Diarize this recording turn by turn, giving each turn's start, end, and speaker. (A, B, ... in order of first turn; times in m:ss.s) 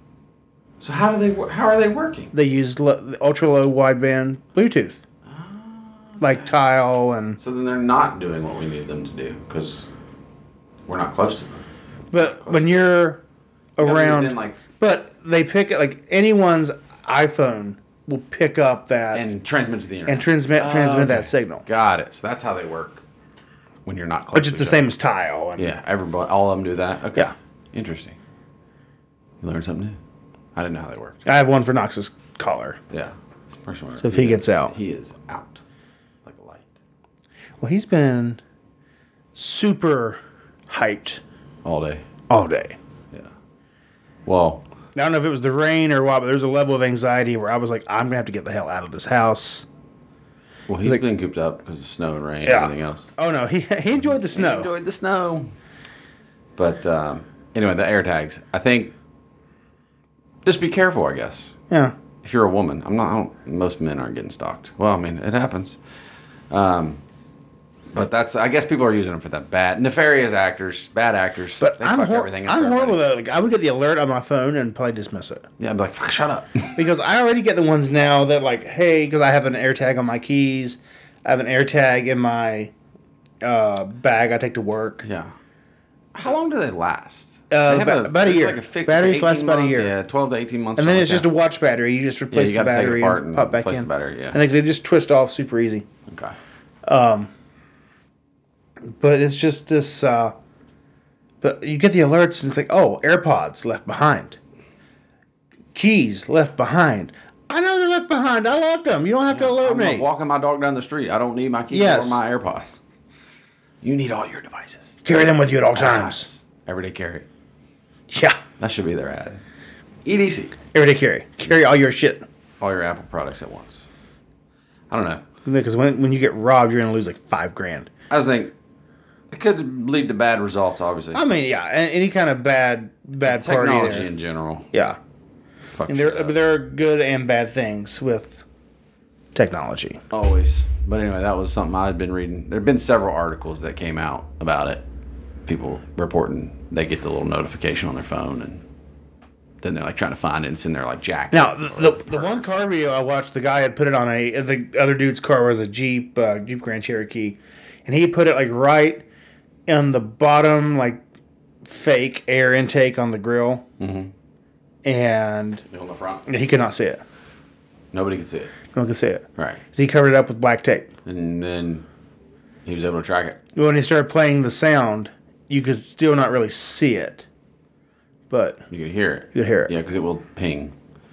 0:00.8-0:02.3 A
0:02.3-0:05.0 B
0:05.3-0:06.5 A
0:06.2-0:07.4 B
0:07.4-0:09.9 A
0:10.9-0:11.6 A
0:12.1-0:13.2 B
0:12.1-0:12.9 A
0:13.8-0:19.2 B
0:13.8-0:14.6 A
0:19.1-0:23.0 A
0:20.1-0:21.6 B
0:23.8-0:24.8 A
0:24.3-0:25.7 B
0:25.6-0:28.2 A
0:29.4-0:30.0 A
0:30.6-0:31.2 A
0:31.3-0:32.8 B
0:32.9-0:35.6 A
0:34.0-0:34.7 B
0:36.2-0:36.8 A
0:37.6-0:38.4 B
0:39.4-0:41.2 B
0:41.6-0:42.0 A
0:42.3-0:42.8 B
0:44.2-0:44.6 A
0:45.0-0:49.7 B
0:50.7-0:53.1 A
0:52.4-0:54.7 B
0:54.0-0:55.5 A
0:56.6-0:58.9 A
1:00.4-1:01.5 A
1:01.7-1:02.0 B
1:02.2-1:05.8 A
1:06.5-1:07.0 A
1:07.9-1:13.0 A
1:11.6-1:15.5 B
1:15.6-1:16.8 A
1:16.8-1:22.7 B
1:23.4-1:25.0 B
1:25.0-1:25.3 A
1:26.1-1:31.3 A
1:27.5-1:29.9 B
1:30.8-1:35.8 B
1:32.3-1:34.4 A
1:36.1-1:36.4 A
1:36.9-1:37.3 B
1:39.0-1:40.4 B
1:41.4-1:44.4 B
1:45.8-1:50.0 B
1:49.3-1:52.8 A
1:51.7-1:52.2 B
1:53.8-1:55.0 A
1:55.0-1:56.3 B
1:55.7-1:57.3 A
1:58.1-1:58.4 B
1:58.6-1:59.4 A
2:00.0-2:00.6 A
2:00.7-2:02.2 B
2:02.6-2:03.9 A
2:04.9-2:05.2 A
2:05.4-2:07.9 B
2:08.1-2:08.5 A
2:09.3-2:11.2 A
2:11.1-2:14.1 B
2:13.2-2:14.7 A
2:14.7-2:15.0 B
2:15.7-2:16.4 A
2:15.9-2:18.4 B
2:19.4-2:20.0 B
2:20.1-2:24.8 A
2:25.5-2:28.6 A
2:29.6-2:32.5 A
2:31.3-2:39.0 B
2:39.7-2:41.0 B
2:41.6-2:43.7 B
2:43.8-2:44.1 A
2:44.8-2:45.6 B
2:45.7-2:46.2 A
2:46.3-2:47.0 B
2:47.9-2:48.5 A
2:48.7-2:50.9 B
2:49.4-2:49.6 A
2:51.0-2:51.9 A
2:52.6-2:53.4 A
2:53.6-2:57.3 B
2:58.3-2:58.6 B
2:58.7-3:00.7 A
2:59.3-2:59.7 B